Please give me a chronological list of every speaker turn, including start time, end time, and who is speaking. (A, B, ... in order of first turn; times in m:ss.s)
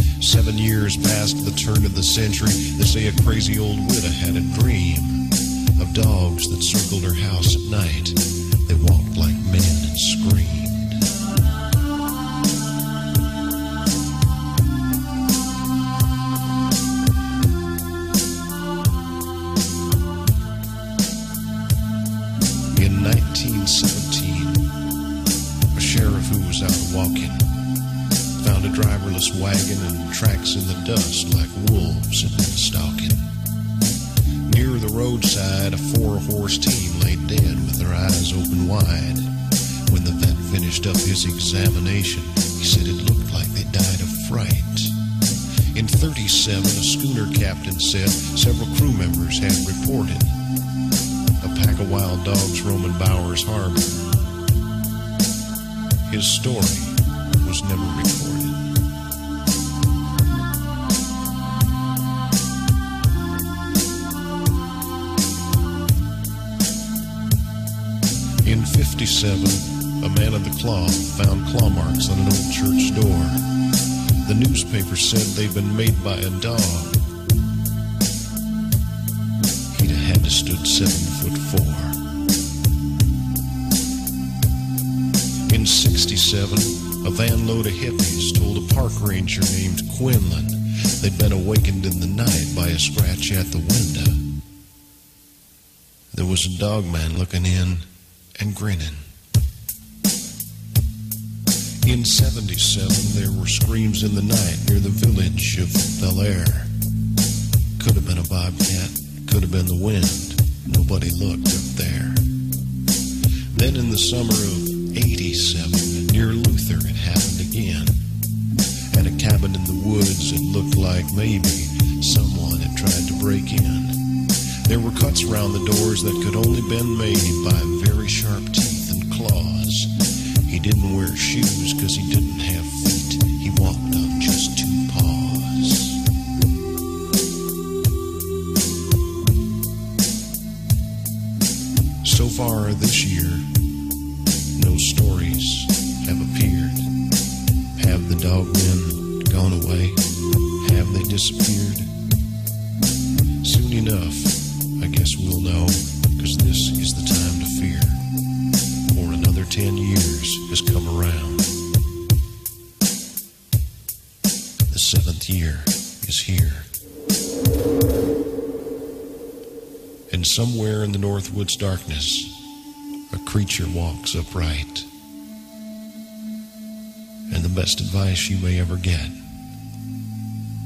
0:00.2-0:11.0 A
0:22.7-0:24.7 A
0:25.7-0:27.6 A
0:28.4-0:33.3 A
0:34.4-0:39.3 A
0:39.9-0:45.0 A
0:45.7-0:50.4 A
0:51.4-0:54.2 A
0:56.1-0:58.8 A
1:08.4-1:13.5 A
1:14.2-1:17.1 A
1:19.7-1:22.0 A
1:25.5-1:34.2 A
1:36.1-1:37.8 A
1:38.4-1:39.0 A
1:41.8-1:46.7 A
1:47.8-1:52.3 A
1:53.5-1:58.0 A
1:58.9-2:04.0 A
2:04.7-2:10.0 A
2:10.5-2:16.0 A
2:22.0-2:23.5 A
2:24.6-2:26.9 A
2:27.8-2:30.0 A
2:30.6-2:31.9 A
2:33.4-2:38.0 A
2:38.9-2:41.5 A
2:44.7-2:46.7 A
2:50.1-2:52.4 A
2:53.1-2:54.9 A
2:57.3-2:59.2 A